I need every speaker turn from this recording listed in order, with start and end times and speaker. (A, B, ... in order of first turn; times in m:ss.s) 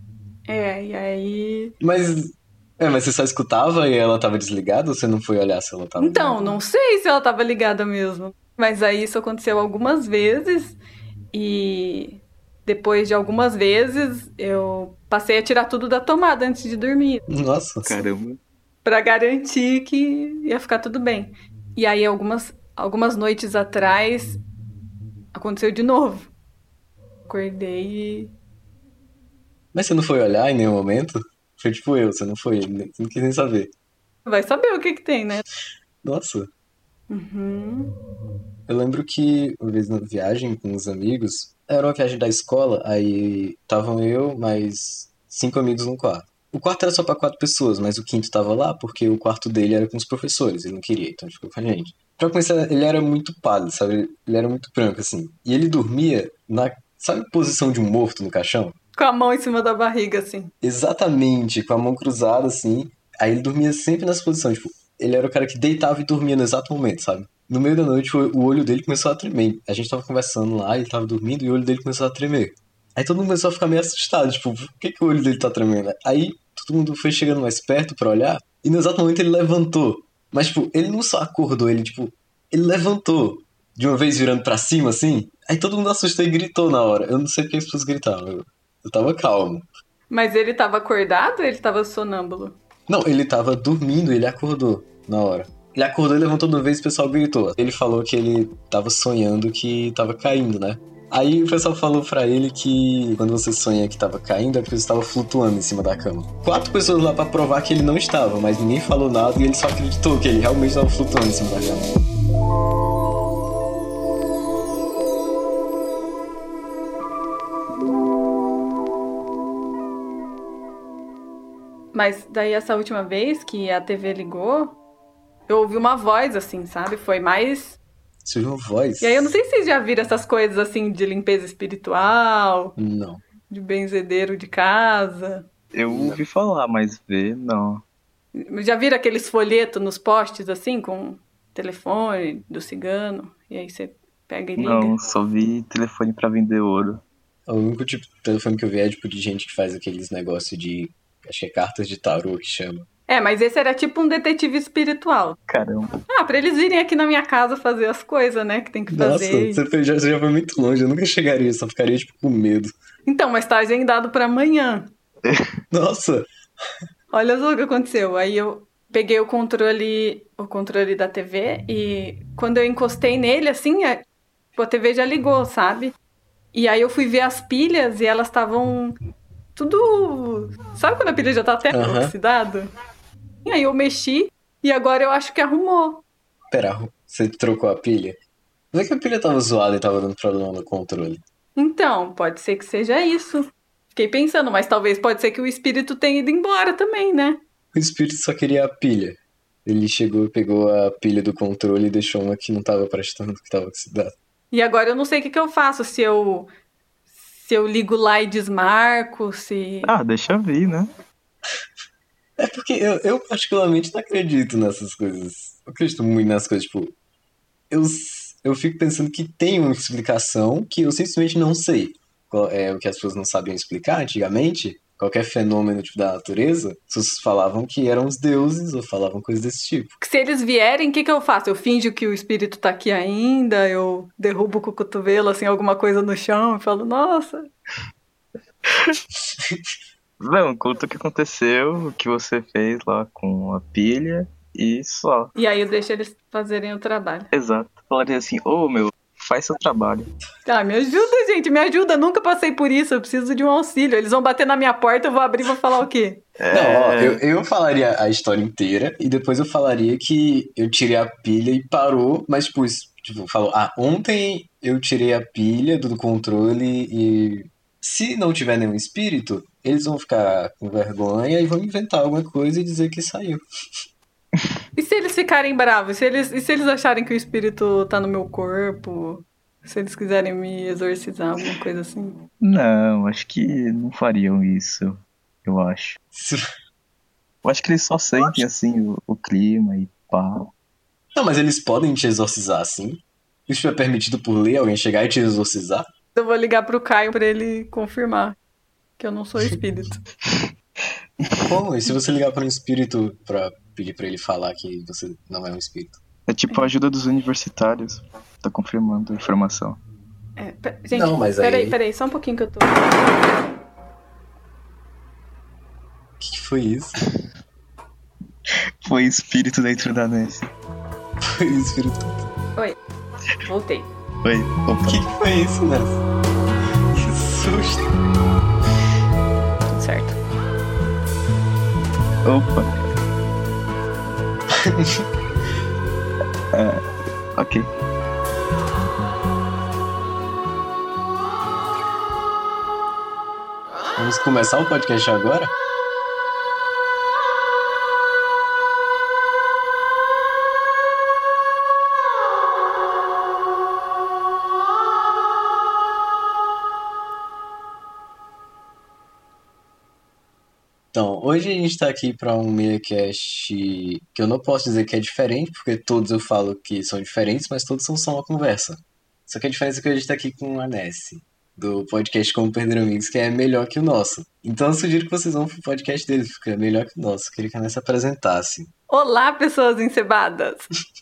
0:00.5-0:01.7 A
0:01.8-0:06.6 B
0:06.0-0:10.8 A
0:11.3-0:17.2 A
0:17.3-0:18.1 B
0:17.8-0:18.4 C
0:18.8-0:24.4 A
0:25.3-0:26.3 A
0:27.2-0:28.3 A
0:29.7-0:33.7 B
0:34.2-0:35.4 A
0:36.0-0:36.5 B
0:37.1-0:37.9 A
0:38.7-0:58.8 B
0:59.0-1:00.5 A
1:00.6-1:29.7 B
1:30.1-1:32.6 A
1:32.9-1:52.0 B
2:01.9-2:04.8 A
2:05.5-2:07.8 A
2:08.2-2:09.4 B
2:09.0-2:12.8 A
2:12.8-2:13.2 B
2:13.5-2:15.5 A
2:15.7-2:17.8 C
2:15.9-2:16.2 B
2:18.3-2:25.0 A
2:24.6-2:27.0 C
2:27.5-2:32.9 B
2:33.1-2:35.4 A
2:35.5-2:36.0 C
2:36.1-2:39.6 A
2:38.9-2:42.7 B
2:43.0-2:44.9 A
2:45.7-2:46.3 B
2:47.1-2:54.0 A
2:54.6-2:56.0 A
2:56.5-2:58.9 A
2:59.6-3:02.7 A
3:01.7-3:02.1 B
3:03.4-3:06.0 A
3:06.5-3:08.2 B
3:08.7-3:11.2 B
3:11.6-3:17.4 A
3:17.7-3:24.1 B
3:24.5-3:26.5 A
3:27.1-3:29.9 A
3:29.8-3:30.9 C
3:32.4-3:36.9 B
3:37.7-3:50.0 B
3:50.0-3:57.5 A
3:58.7-3:59.0 C
3:59.4-3:59.7 B
4:00.2-4:05.3 C
4:05.3-4:07.3 A
4:07.3-4:10.1 C
4:10.4-4:16.2 A
4:16.4-4:17.2 C
4:16.5-4:33.4 B
4:34.8-4:42.2 A
4:42.4-4:46.0 C
4:46.1-4:46.4 B
4:47.4-4:50.5 C
4:51.1-4:55.8 B
4:56.2-4:58.4 A
4:59.0-5:00.0 A
5:01.2-5:01.5 C
5:01.4-5:06.0 B
5:06.3-5:09.8 C
5:10.4-5:13.1 A
5:10.9-5:11.8 B
5:16.2-5:17.0 B
5:18.8-5:20.5 C
5:21.2-5:22.3 B
5:23.4-5:23.9 A
5:24.2-5:25.0 C
5:24.8-5:26.0 B
5:26.9-5:27.9 B
5:29.7-5:30.2 A
5:32.2-5:32.7 C
5:34.6-5:35.0 B
5:36.5-5:36.8 C
5:37.4-5:37.7 C
5:43.9-5:45.5 B
6:00.9-6:18.7 B
6:18.9-6:20.7 A